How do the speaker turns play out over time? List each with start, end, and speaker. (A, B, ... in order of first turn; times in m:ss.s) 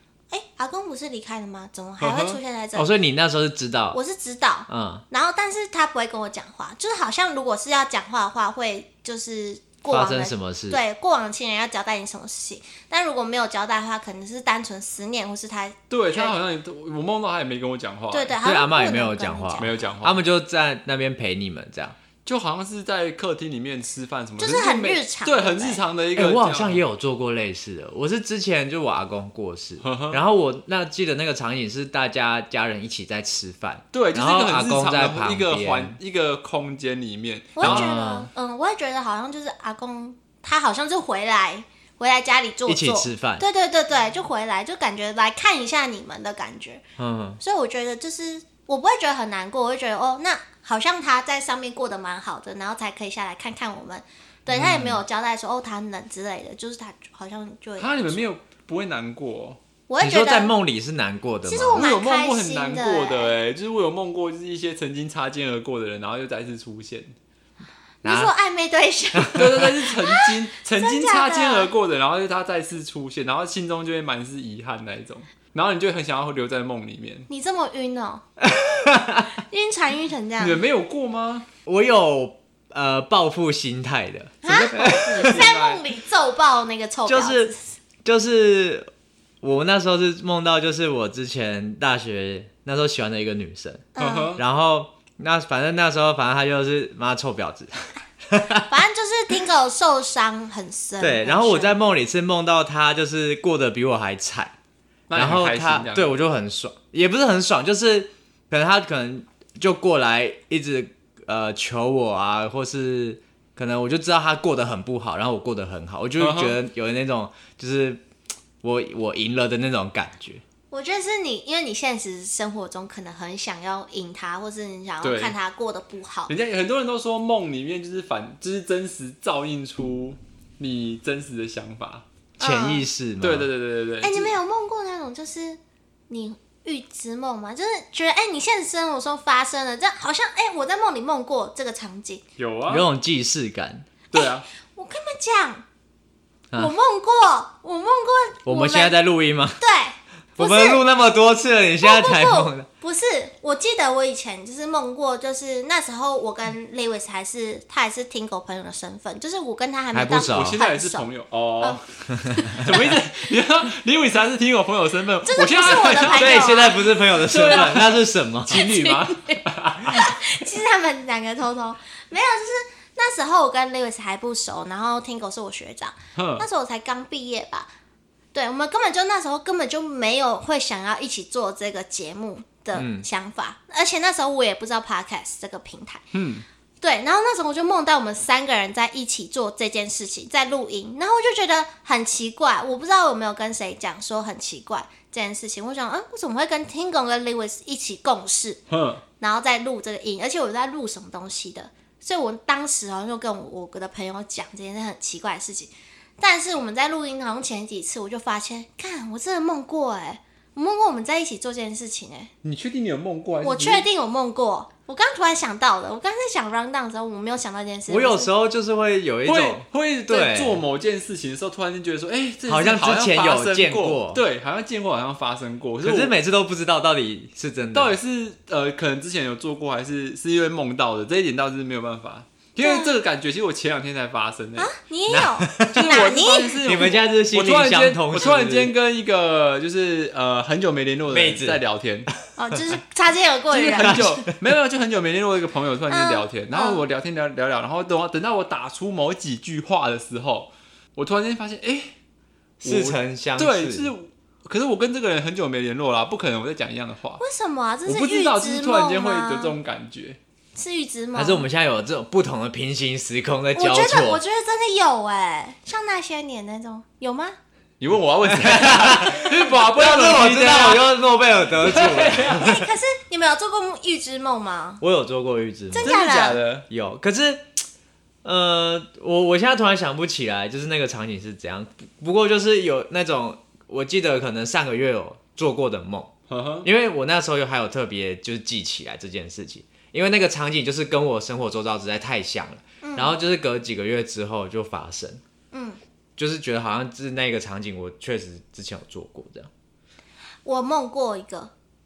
0:00.3-0:02.9 A
0:02.0-0:02.4 B
0:02.8-0:04.0 C
0:03.9-0:16.4 A
0:04.7-0:05.0 C
0:09.9-0:10.8 C
0:15.9-0:18.4 B
0:18.1-0:19.9 A
0:18.4-0:22.0 C
0:19.6-0:20.2 B
0:22.3-0:26.8 B
0:24.4-0:25.8 A
0:26.2-0:36.0 C
0:29.8-0:30.2 B
0:33.9-0:37.9 B
0:37.6-0:46.8 A
0:37.6-0:38.3 C
0:42.7-0:43.4 C
0:47.0-0:47.4 C
0:47.4-0:58.2 A
0:54.5-0:55.0 C
0:57.8-0:59.6 B
0:59.9-1:00.5 A
1:00.0-1:01.9 C
1:01.4-1:03.3 A
1:01.8-1:07.1 B
1:08.0-1:11.7 A
1:08.0-1:08.3 C
1:09.2-1:09.7 C
1:09.4-1:17.3 B
1:17.3-1:18.2 A
1:18.4-1:19.3 C
1:19.5-1:20.6 A
1:20.4-1:21.5 B
1:21.7-1:25.4 C
1:24.4-1:27.8 A
1:24.5-1:25.8 B
1:27.1-1:28.9 C
1:29.4-1:38.7 C
1:34.0-1:34.3 A
1:34.0-1:34.4 B
1:38.7-1:41.8 A
1:41.0-1:44.5 C
1:45.1-1:46.1 B
1:45.1-1:58.0 C
1:56.2-1:56.6 B
1:58.6-2:00.4 C
2:00.7-2:06.3 A
2:05.0-2:05.4 B
2:06.3-2:12.0 B
2:12.4-2:12.8 A
2:12.4-2:13.5 C
2:13.2-2:14.4 B
2:14.0-2:22.2 A
2:22.4-2:22.9 B
2:22.7-2:23.9 C
2:24.1-2:24.4 B
2:24.1-2:25.6 A
2:26.6-2:29.0 A
2:28.5-2:29.6 C
2:29.6-2:30.8 A
2:30.4-2:32.7 C
2:31.8-2:41.1 A
2:39.9-2:40.6 C
2:40.3-2:50.2 B
2:41.6-2:42.8 A
2:45.2-2:48.0 A
2:46.0-2:48.6 C
2:48.5-2:57.7 A
2:56.2-2:56.4 B
2:58.3-3:06.0 A
3:02.7-3:03.1 C
3:06.1-3:06.4 B
3:06.8-3:18.6 A
3:18.7-3:19.0 B
3:19.2-3:32.3 A
3:32.4-3:33.9 B
3:33.4-3:38.3 A
3:37.9-3:40.6 C
3:39.3-3:46.1 B
3:42.5-3:44.2 C
3:45.8-3:48.0 C
3:47.7-3:54.7 B
3:52.6-3:53.0 A
3:54.6-3:56.9 A
3:55.1-3:55.8 C
3:55.6-4:02.1 B
3:56.6-3:58.7 C
4:01.1-4:01.6 C
4:02.4-4:04.2 A
4:03.5-4:11.9 B
4:03.8-4:04.3 C
4:05.9-4:06.8 A
4:12.6-4:13.9 C
4:12.6-4:17.2 B
4:17.2-4:19.6 A
4:17.9-4:20.2 B
4:20.6-4:21.5 A
4:21.2-4:24.2 C
4:23.5-4:27.4 A
4:27.8-4:30.9 B
4:28.4-4:32.7 C
4:31.5-4:32.6 B
4:32.4-4:34.8 A
4:34.8-4:35.9 C
4:35.7-4:36.4 A
4:35.8-4:36.7 B
4:36.7-4:37.5 C
4:38.2-4:55.2 C
4:46.3-4:46.7 B
4:52.8-4:53.2 A
4:55.5-4:55.8 A
4:56.2-4:59.5 C
5:00.4-5:01.5 A